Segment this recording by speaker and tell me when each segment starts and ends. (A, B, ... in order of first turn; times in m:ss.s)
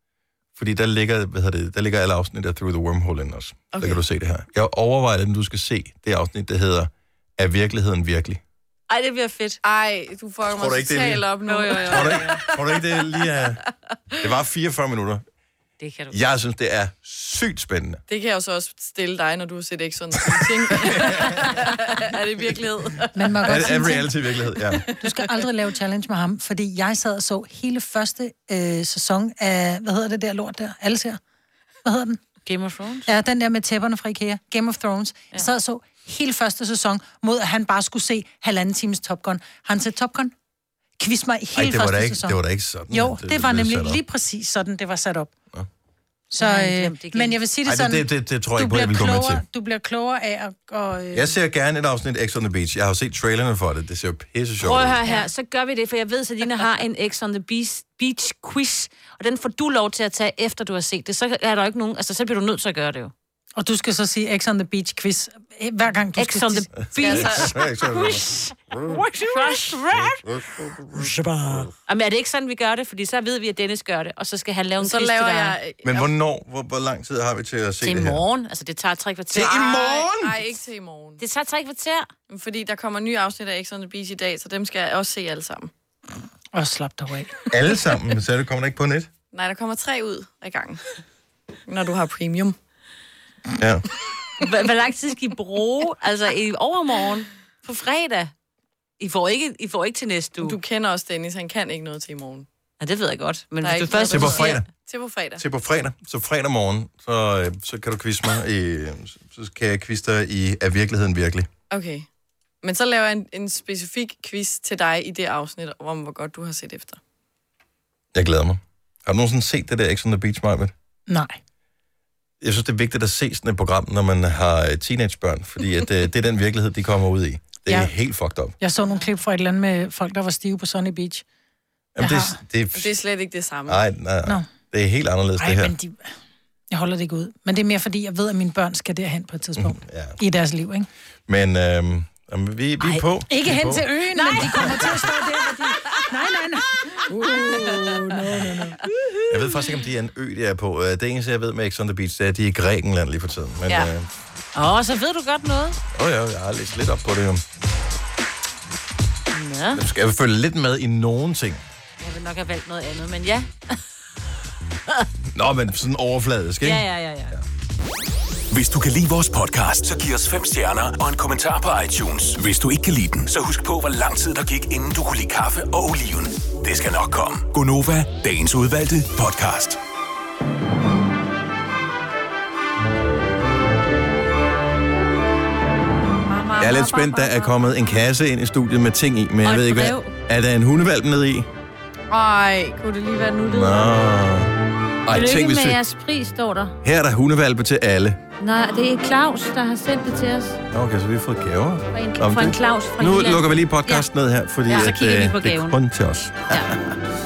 0:00.6-0:08.4 A
0:03.7-0:04.0 B
0:08.9-0:09.6 C
0:09.6-0:12.8 B
0:10.4-0:11.3 A
0:11.4-0:12.4 C
0:11.8-0:13.6 A
0:14.2-0:15.2 A
0:15.8-0:16.2 C
0:16.1-0:18.0 A
0:18.1-0:23.1 B
0:20.2-0:21.5 A
0:23.1-0:24.1 D
0:23.4-0:24.8 A
0:25.0-0:31.2 D
0:31.8-0:32.2 D
0:32.4-0:33.1 C
0:33.0-0:40.3 D
0:41.0-0:42.4 D
0:41.5-0:44.0 A
0:42.9-0:45.3 D
0:46.3-0:51.3 D
0:46.4-0:47.4 C
0:47.6-0:49.4 A
0:51.1-0:55.0 A
0:54.6-1:03.1 C
1:03.6-1:06.7 D
1:06.2-1:10.2 C
1:06.8-1:09.0 A
1:07.0-1:07.6 B
1:10.0-1:11.7 A
1:11.9-1:15.6 C
1:14.8-1:16.1 B
1:15.8-1:18.2 A
1:17.8-1:19.6 C
1:19.3-1:20.4 A
1:19.3-1:21.2 B
1:21.2-1:22.1 C
1:22.3-1:25.7 B
1:26.5-1:27.4 D
1:27.5-1:29.1 A
1:29.3-1:30.8 B
1:31.7-1:32.6 B
1:33.6-1:33.8 A
1:34.4-1:38.3 C
1:39.0-1:40.6 C
1:40.4-1:42.5 B
1:42.8-1:44.6 C
1:43.6-1:45.4 B
1:44.1-1:44.6 A
1:45.4-1:51.5 A
1:51.7-1:52.0 B
1:52.6-1:57.0 B
1:58.1-2:00.7 A
2:01.1-2:01.4 D
2:02.4-2:08.6 A
2:07.7-2:07.9 D
2:08.6-2:11.2 D
2:11.9-2:12.9 A
2:12.0-2:12.4 D
2:12.7-2:13.9 B
2:13.7-2:15.7 A
2:15.4-2:16.1 D
2:16.7-2:20.9 D
2:19.6-2:20.2 A
2:21.3-2:25.1 A
2:22.8-2:28.8 D
2:29.3-2:34.1 A
2:34.5-2:35.8 C
2:35.9-2:37.4 A
2:39.3-2:39.8 C
2:39.7-2:41.6 A
2:42.0-2:43.8 C
2:45.3-2:47.4 A
2:46.6-2:47.3 C
2:48.5-2:59.8 E
3:06.3-3:07.1 B
3:06.4-3:07.5 C
3:06.6-3:11.5 A
3:09.4-3:10.1 C
3:12.1-3:13.8 B
3:13.4-3:14.5 A
3:15.0-3:15.8 A
3:15.1-3:16.8 C
3:16.8-3:18.2 A
3:18.4-3:20.6 C
3:20.7-3:27.0 A
3:21.9-3:24.1 C
3:24.7-3:25.8 C